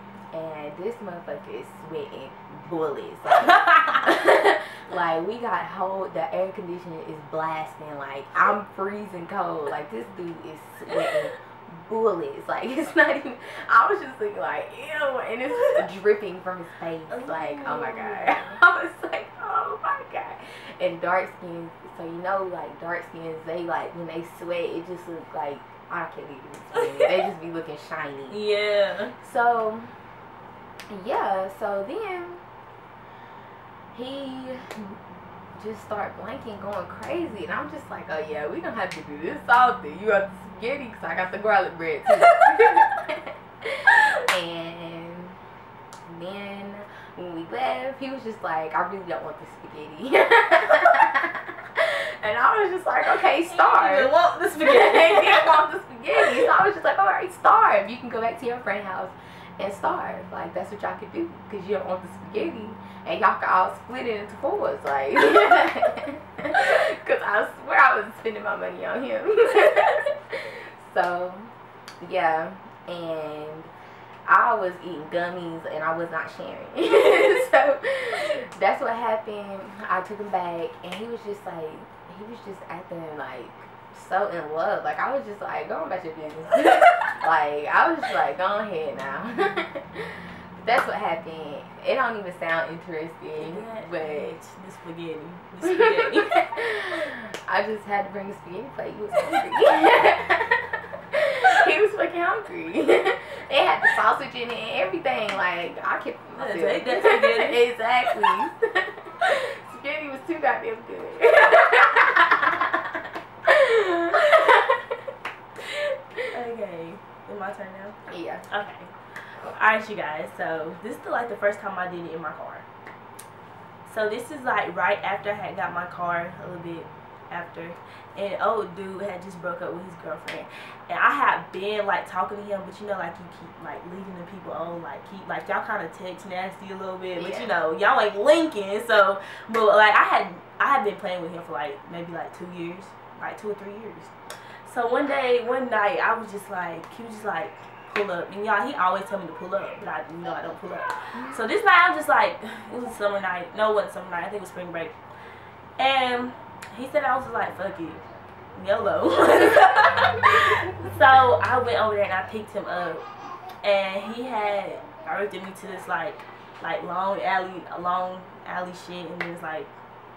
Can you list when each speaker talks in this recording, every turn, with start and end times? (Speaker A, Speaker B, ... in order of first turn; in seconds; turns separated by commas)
Speaker A: 0.3-28.4, Speaker B: 3.4-4.1, Speaker B: 17.1-18.6, Speaker B: 26.7-27.3, Speaker B: 28.3-29.1, Speaker A: 29.2-29.9, Speaker A: 30.9-32.4, Speaker A: 33.9-34.9, Speaker A: 35.5-45.4, Speaker B: 42.5-42.8, Speaker A: 46.0-73.7, Speaker B: 53.2-55.6, Speaker B: 56.1-56.5, Speaker A: 74.2-94.4, Speaker B: 93.4-96.4, Speaker A: 95.6-115.0, Speaker B: 106.4-107.6, Speaker B: 116.3-122.6, Speaker A: 118.1-118.5, Speaker B: 123.9-144.1, Speaker A: 137.2-137.5, Speaker B: 144.6-154.9, Speaker B: 155.8-158.0, Speaker B: 158.6-163.1, Speaker B: 163.6-169.7